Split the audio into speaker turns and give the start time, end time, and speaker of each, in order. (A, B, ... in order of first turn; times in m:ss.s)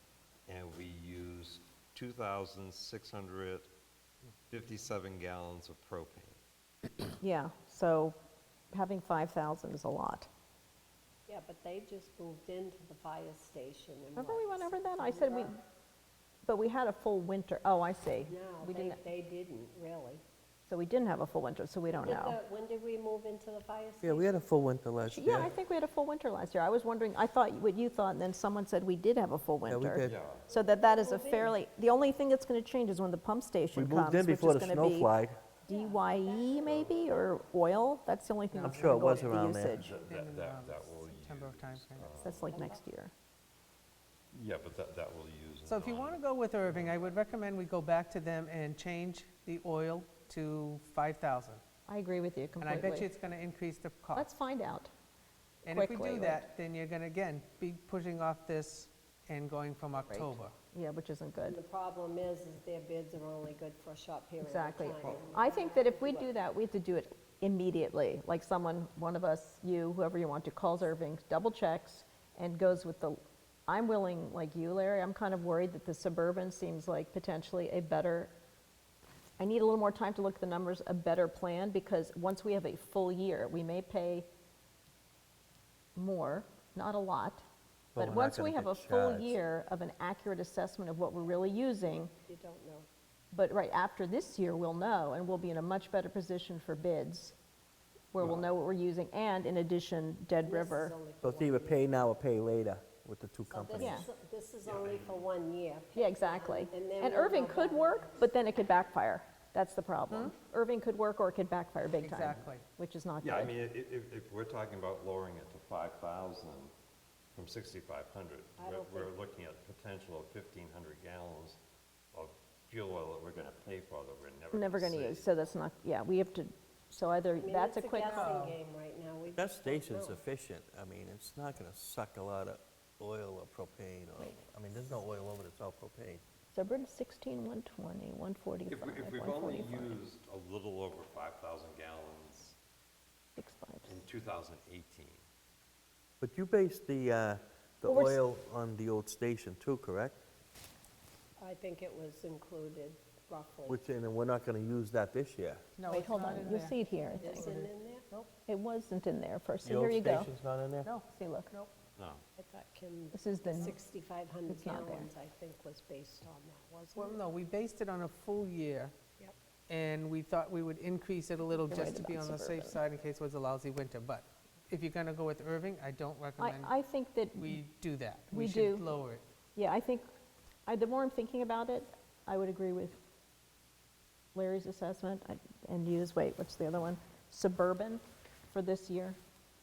0:00.5-0:03.7 A
0:04.5-0:06.4 A
0:07.2-0:08.2 B
0:08.7-0:10.3 B
0:11.3-0:15.6 C
0:14.2-0:15.6 B
0:16.5-0:19.0 B
0:18.2-0:20.2 C
0:20.7-0:22.4 B
0:21.9-0:24.5 C
0:24.0-0:25.6 D
0:25.1-0:35.2 B
0:29.7-0:30.2 D
0:30.0-0:30.5 A
0:30.5-0:31.6 C
0:33.7-0:35.4 D
0:35.6-0:37.4 C
0:35.7-0:39.9 B
0:38.5-0:39.5 E
0:38.6-0:39.8 D
0:39.7-0:42.6 A
0:40.0-0:42.4 E
0:42.2-0:43.1 B
0:42.5-0:42.8 C
0:44.3-0:47.2 A
0:45.7-0:51.6 E
0:51.9-0:53.1 B
0:52.6-0:54.3 E
0:54.1-0:54.9 B
0:55.6-1:00.5 E
0:55.7-0:56.4 B
1:00.1-1:01.6 B
1:01.4-1:06.4 C
1:04.4-1:18.3 B
1:19.4-1:24.3 B
1:26.0-1:27.4 B
1:28.0-1:29.4 D
1:28.0-1:32.1 B
1:32.3-1:32.9 C
1:33.3-1:37.4 B
1:38.1-1:41.0 B
1:40.4-1:41.8 C
1:41.2-1:44.0 D
1:43.5-1:48.3 C
1:43.8-1:44.1 B
1:44.6-1:45.1 A
1:46.0-1:53.6 B
1:52.0-1:52.6 E
1:53.2-1:56.7 A
1:57.4-2:01.6 A
1:58.6-1:59.1 C
2:02.1-2:05.4 A
2:04.5-2:08.4 B
2:07.4-2:10.2 C
2:08.1-2:08.6 E
2:09.3-2:16.2 D
2:16.5-2:20.0 B
2:18.7-2:22.6 A
2:23.4-2:24.0 B
2:23.9-2:25.2 A
2:26.2-2:30.2 D
2:27.8-2:28.2 B
2:31.4-2:33.8 C
2:33.7-2:35.6 D
2:35.8-2:36.8 E
2:35.9-2:37.6 B
2:37.2-2:38.4 C
2:37.4-2:37.7 E
2:38.5-2:40.3 B
2:39.6-2:40.9 D
2:40.8-2:41.7 E
2:41.1-2:41.5 B
2:42.0-2:42.2 A
2:42.4-2:47.2 C
2:43.1-2:43.8 B
2:44.5-2:45.1 B
2:47.0-2:48.9 E
2:49.7-2:56.7 E
2:51.6-2:52.8 B
2:56.4-2:57.6 B
2:57.4-2:59.2 E
2:58.3-2:58.9 B
2:59.6-3:00.1 B
3:00.7-3:03.0 B
3:04.3-3:09.2 B